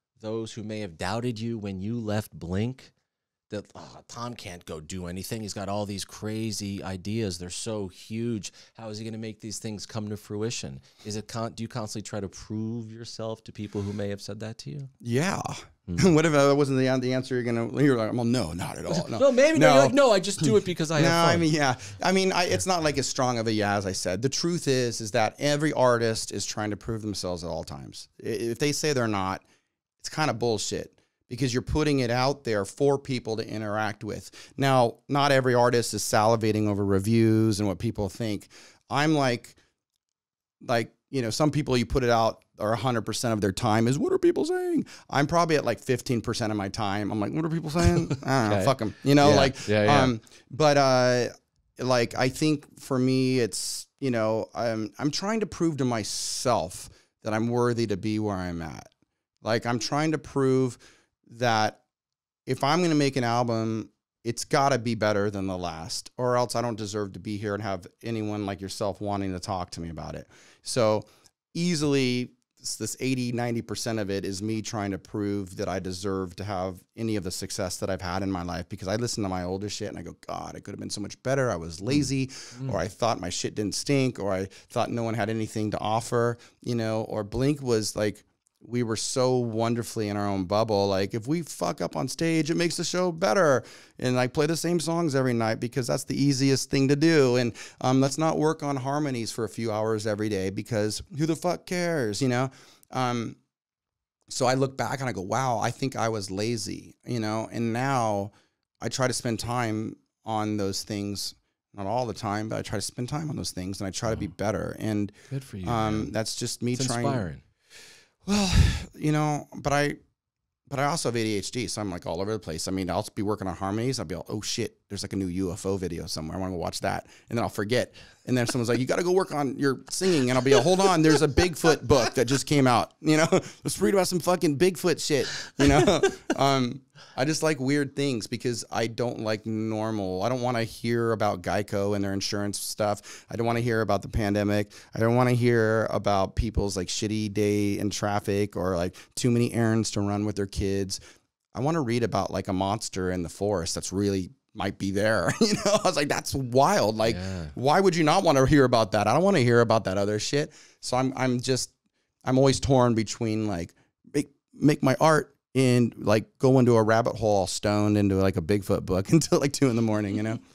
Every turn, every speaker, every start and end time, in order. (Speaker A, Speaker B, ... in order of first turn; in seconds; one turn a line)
Speaker A: 0.2-2.9
Speaker A: 3.5-14.9
Speaker B: 15.0-29.4
Speaker A: 18.9-21.5
Speaker B: 30.0-39.6
Speaker B: 40.6-58.9
Speaker A: 48.1-50.1
Speaker B: 59.4-61.8
Speaker B: 62.5-103.4
Speaker A: 81.9-82.8
Speaker B: 104.3-117.3
Speaker A: 115.3-116.1
Speaker A: 116.8-117.4
Speaker B: 118.2-120.0
Speaker B: 120.7-151.0
Speaker B: 151.5-161.7
Speaker A: 157.0-157.6
Speaker B: 162.2-170.4